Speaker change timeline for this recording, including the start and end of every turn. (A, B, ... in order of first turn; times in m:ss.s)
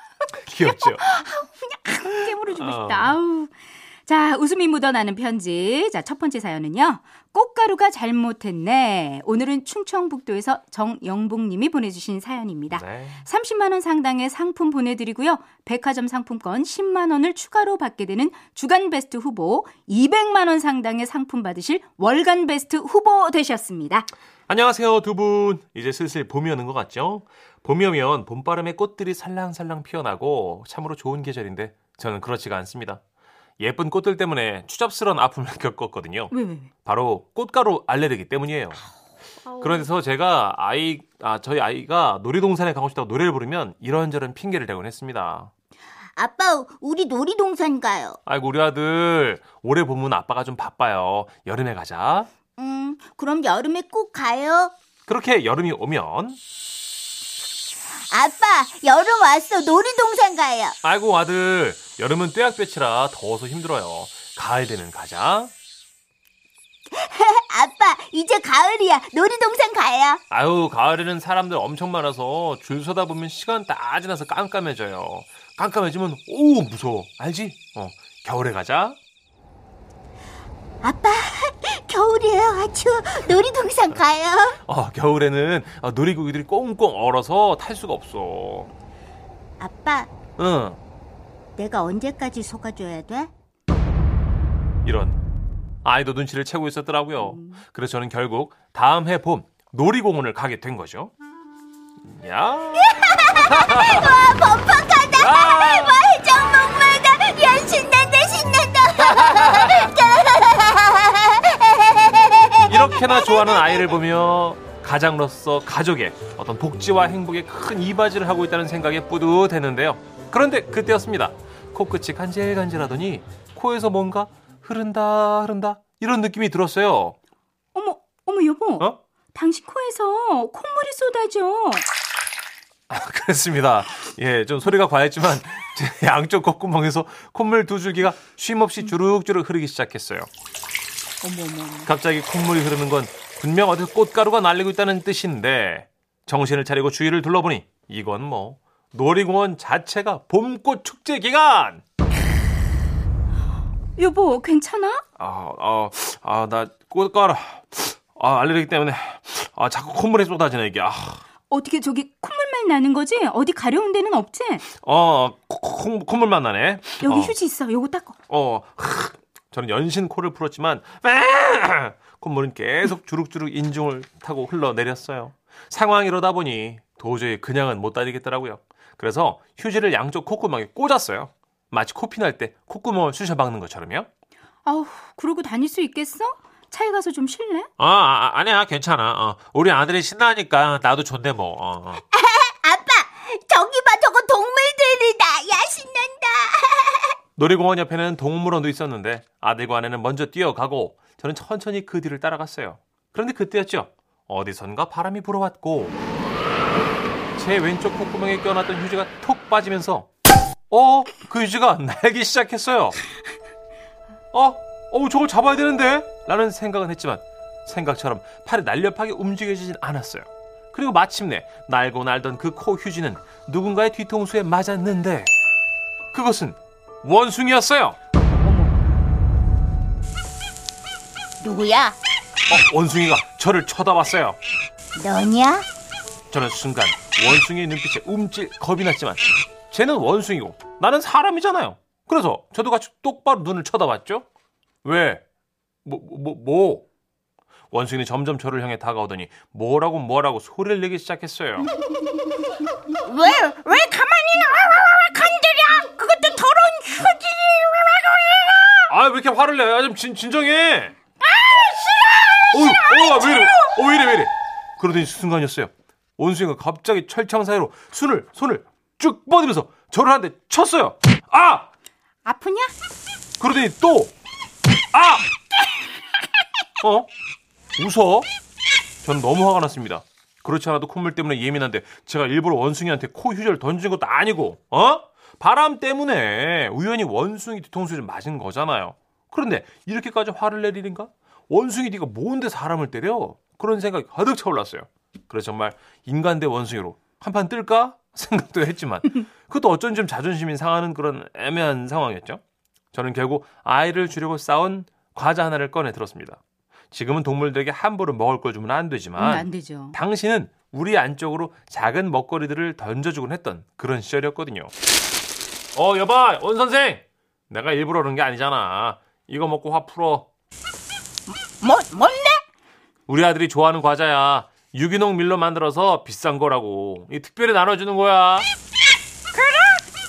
0:00.4-0:01.0 A
0:00.5-0:03.5 B
0:02.5-0:03.1 A
0:04.0-0:24.1 B
0:12.7-0:13.2 A
0:24.5-0:33.0 A
0:33.6-0:36.3 A
0:36.3-0:36.7 B
0:36.8-0:38.8 A
0:39.6-0:45.5 A
0:46.2-0:48.2 C
0:48.2-0:52.3 A
0:52.6-0:54.7 C
0:55.1-0:56.4 A
0:58.1-1:00.7 C
1:00.8-1:05.5 A
1:06.9-1:10.2 C
1:10.3-1:19.0 A
1:20.8-1:24.6 C
1:24.6-1:28.7 A
1:29.6-1:30.1 C
1:30.4-1:30.8 A
1:31.6-1:33.3 C
1:34.8-1:35.2 A
1:35.8-1:41.1 A
1:37.2-1:37.6 C
1:42.0-1:44.2 A
1:42.8-1:54.0 C
1:45.2-1:46.0 A
1:49.0-1:49.9 A
1:52.6-2:07.2 A
2:07.7-2:11.8 B
2:12.9-2:20.3 A
2:21.2-2:21.9 B
2:21.8-2:31.8 A
2:34.0-2:35.0 B
2:35.2-2:41.2 A
2:41.5-2:44.6 B
2:44.8-2:47.3 A
2:47.0-2:48.2 B
2:48.3-3:04.1 A
3:04.6-3:07.7 B
3:07.8-3:12.0 A
3:12.1-3:17.1 C
3:17.4-3:26.0 A
3:27.3-3:30.1 A
3:30.7-3:33.0 A
3:34.3-3:45.3 A
3:46.1-3:48.0 A
3:48.4-3:48.7 B
3:51.4-3:52.0 C
3:52.5-3:54.4 A
3:55.0-3:55.6 C
3:56.3-4:04.2 A
4:04.8-4:05.2 A
4:05.8-4:06.8 A
4:07.7-4:11.6 A
4:13.0-4:18.9 C
4:18.9-4:20.9 A
4:21.2-4:23.8 C
4:22.5-4:31.7 A
4:32.2-4:32.7 B
4:33.4-4:34.1 A
4:34.9-4:35.2 A
4:36.8-4:37.1 A
4:37.8-4:38.3 A
4:39.0-5:02.4 A
5:02.9-5:06.4 A
5:06.9-5:14.7 A
5:09.2-5:10.0 B
5:15.7-5:20.3 A
5:21.6-5:22.4 C
5:23.1-5:28.5 A
5:29.4-5:29.8 C